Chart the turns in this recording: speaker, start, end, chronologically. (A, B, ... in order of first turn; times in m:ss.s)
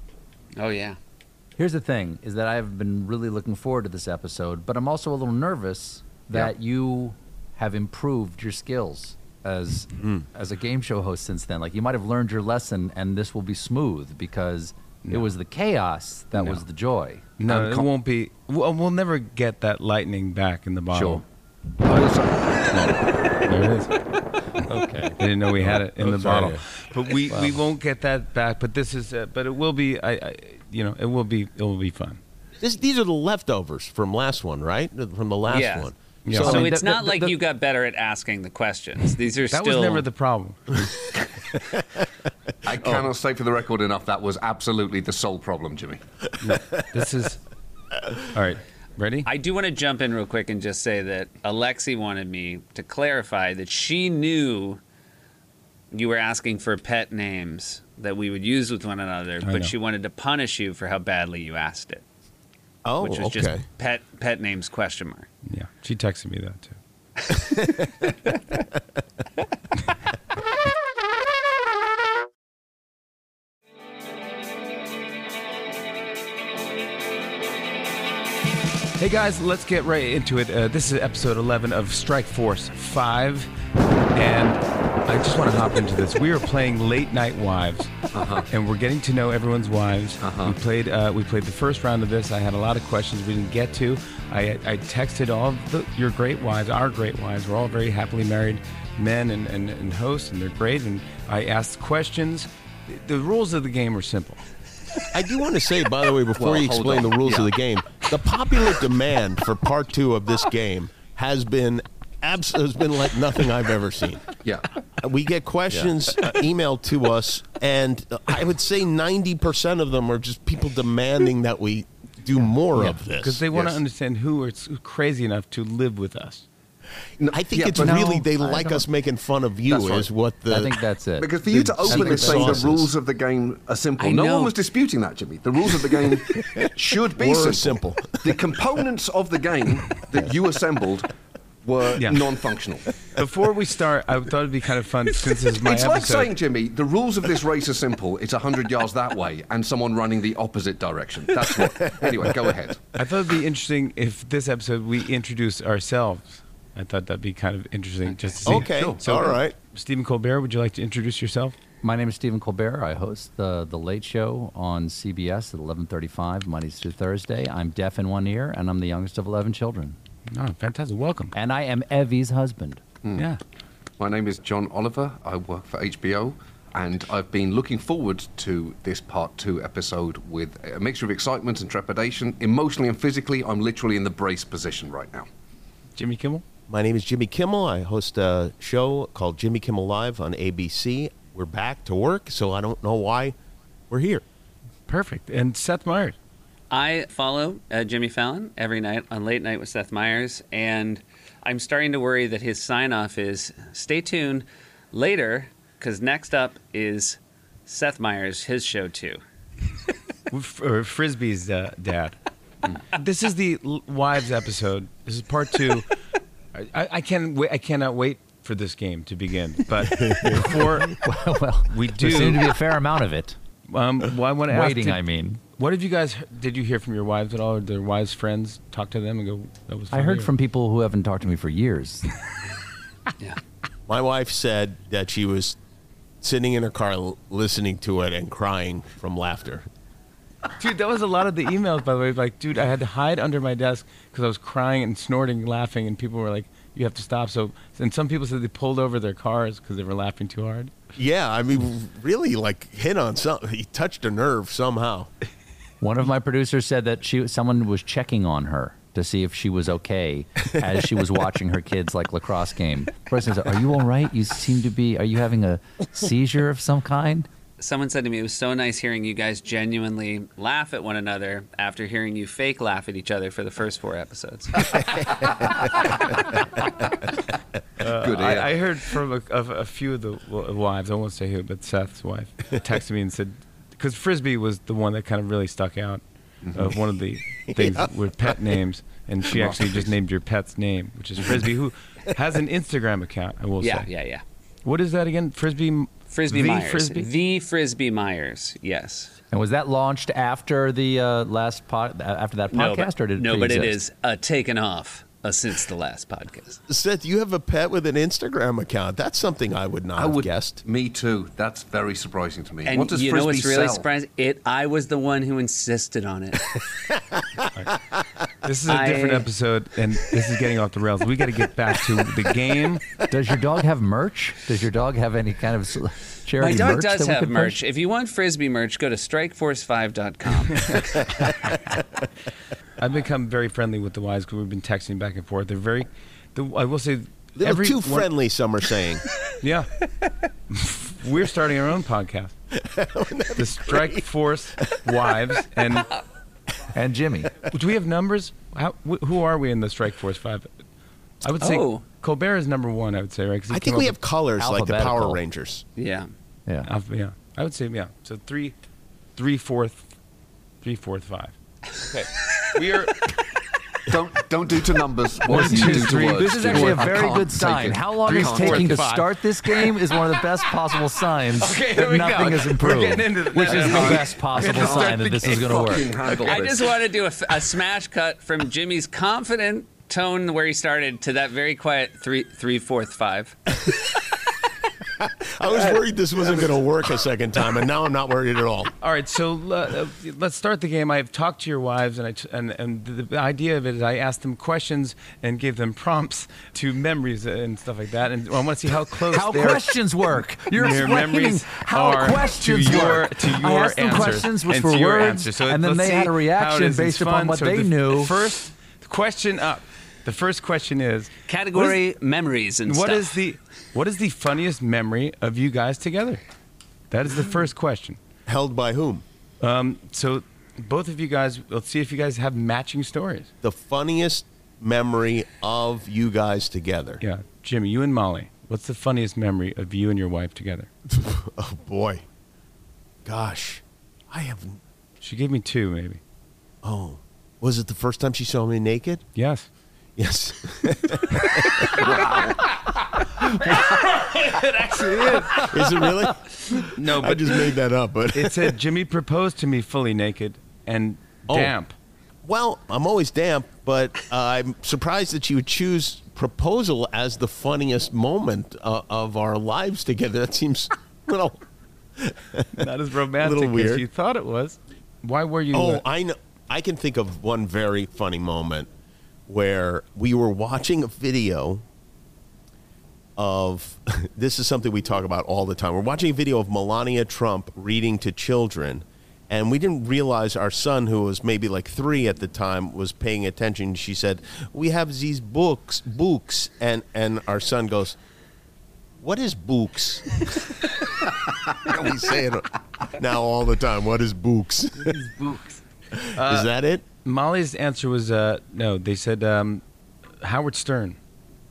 0:00.6-0:01.0 A
0:01.6-0:17.8 B
0:16.3-0:16.6 C
0:17.4-0:21.2 C
0:20.9-0:21.2 D
0:21.8-0:22.1 C
0:21.8-0:22.9 D
0:22.7-0:24.0 C
0:24.7-0:25.2 B
0:25.2-0:32.2 C
0:25.6-0:26.6 E
0:32.6-0:36.7 E
0:35.5-0:40.0 A
0:36.2-0:36.7 C
0:36.4-0:37.4 B
0:39.5-0:40.8 C
0:42.6-0:46.0 D
0:46.4-0:47.4 C
0:48.3-0:49.3 C
0:49.2-0:54.8 A
0:55.9-1:02.0 A
0:59.4-0:59.7 C
1:02.8-1:03.6 E
1:03.0-1:05.3 A
1:05.4-1:06.8 C
1:07.3-1:08.1 E
1:19.0-1:23.5 C
1:24.1-1:27.9 C
1:28.1-1:28.5 D
1:28.5-1:44.4 C
1:30.2-1:30.6 D
1:45.1-1:54.3 E
1:46.4-1:47.5 D
1:55.0-2:03.4 E
2:03.2-2:06.4 C
2:03.5-2:03.8 D
2:07.2-2:08.1 D
2:07.3-2:10.7 E
2:07.8-2:08.8 B
2:09.7-2:10.1 D
2:10.5-2:12.7 B
2:11.2-2:21.1 D
2:11.4-2:12.9 E
2:14.0-2:14.5 A
2:16.4-2:18.5 E
2:21.6-2:22.9 D
2:22.0-2:22.2 C
2:23.2-2:26.3 C
2:25.5-2:32.8 D
2:31.4-2:32.5 E
2:33.0-2:41.5 C
2:38.4-2:39.0 D
2:38.4-2:39.5 E
2:41.8-2:50.0 B
2:50.3-2:51.3 C
2:51.3-2:52.8 B
2:53.0-2:53.3 D
2:54.0-3:05.3 D
3:06.0-3:06.4 C
3:06.7-3:13.3 E
3:13.9-3:14.2 E
3:14.9-3:16.2 C
3:16.7-3:29.2 A
3:30.3-3:32.2 C
3:32.9-3:35.9 C
3:36.5-3:41.0 C
3:39.9-3:40.6 E
3:40.9-3:43.4 B
3:41.7-3:42.5 C
3:43.7-3:45.0 C
3:44.5-3:45.4 B
3:45.6-3:50.3 C
3:49.9-3:52.1 B
3:53.9-3:55.6 E
3:56.2-3:59.7 E
4:00.6-4:10.7 C
4:10.9-4:15.1 E
4:15.8-4:27.3 B
4:27.6-4:34.9 A
4:35.0-4:35.5 E
4:37.8-4:53.9 C
4:38.0-4:38.6 D
4:46.4-4:46.7 D
4:47.5-4:47.9 E
4:49.3-4:49.9 D
4:53.6-4:54.2 A
4:54.6-4:57.1 C
4:56.1-4:59.1 A
4:59.3-5:03.8 B
5:02.5-5:06.6 A
5:06.7-5:10.6 E
5:10.0-5:13.8 D
5:12.6-5:16.6 A
5:16.9-5:17.2 E
5:18.4-5:22.8 C
5:18.7-5:19.3 A
5:23.1-5:27.6 B
5:26.4-5:31.6 A
5:32.8-5:38.1 C
5:37.4-5:39.1 E
5:39.3-5:39.7 C
5:40.5-5:42.3 C
5:42.5-5:44.1 E
5:43.3-5:45.9 C
5:46.7-5:47.4 B
5:47.5-5:50.5 C
5:51.2-5:54.0 C
5:51.4-5:51.8 A
5:53.5-5:55.6 E
5:54.4-5:55.2 B
5:55.8-5:56.1 A
5:56.6-5:58.5 C
5:59.2-5:59.9 C
6:00.6-6:03.2 C
6:03.9-6:08.8 D
6:05.3-6:15.9 B
6:05.3-6:09.8 C
6:11.3-6:16.1 C
6:13.5-6:16.8 D
6:16.1-6:23.5 A
6:25.0-6:28.7 E
6:28.8-6:39.7 C
6:39.1-6:48.2 B
6:40.5-6:51.8 C
6:51.3-6:53.1 A
6:52.6-6:56.2 C
6:56.9-6:58.0 C
6:58.3-6:59.0 E
6:59.4-7:03.3 C
7:03.4-7:07.0 E
7:07.0-7:10.7 C
7:10.9-7:12.0 E
7:13.0-7:14.6 E
7:15.0-7:16.0 C
7:16.6-7:19.1 E
7:19.1-7:19.5 C
7:20.0-7:22.1 E
7:21.8-7:22.3 D
7:24.0-7:25.6 C
7:24.1-7:24.4 A
7:25.4-7:28.6 E
7:26.6-7:27.6 C
7:28.1-7:31.8 C
7:31.3-7:31.5 E
7:32.2-7:41.4 E
7:42.0-7:42.7 E
7:42.5-7:45.8 C
7:43.2-7:43.8 E
7:45.5-7:48.7 E
7:49.3-7:51.6 E
7:53.2-8:08.0 E
8:09.0-8:10.8 E
8:11.5-8:15.1 E
8:14.8-8:15.6 C
8:16.0-8:16.8 E
8:16.1-8:16.5 C
8:17.0-8:19.6 C
8:20.2-8:21.0 C